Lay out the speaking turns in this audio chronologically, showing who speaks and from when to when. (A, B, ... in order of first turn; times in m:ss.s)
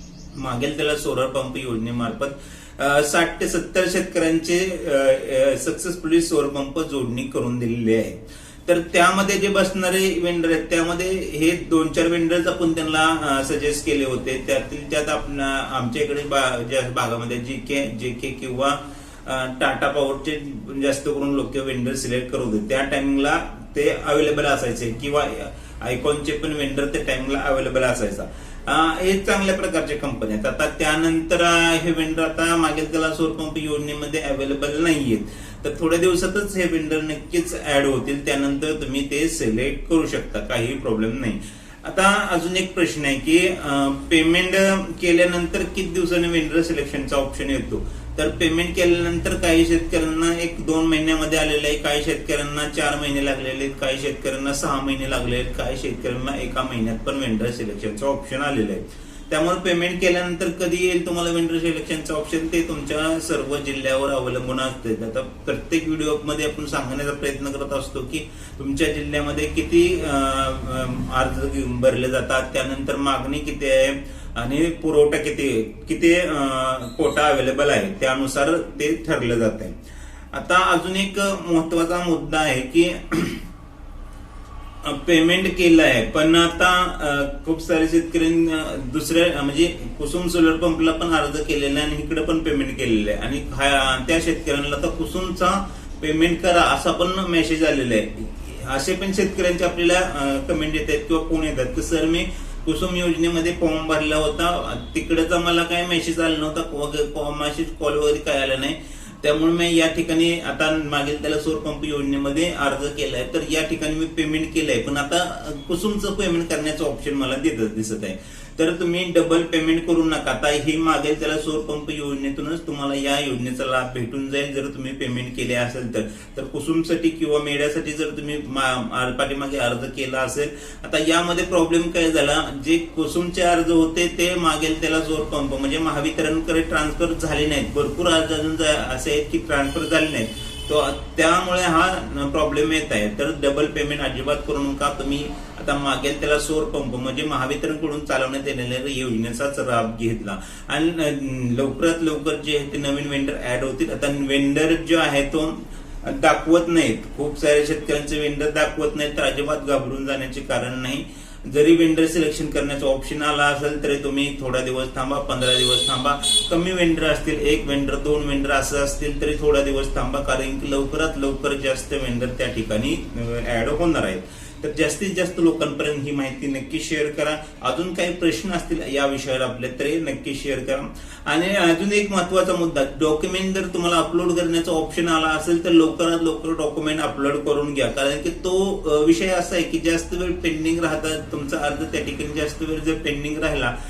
0:00.3-1:19.8 A
1:20.3-1:23.4 A
1:24.8-3:13.7 A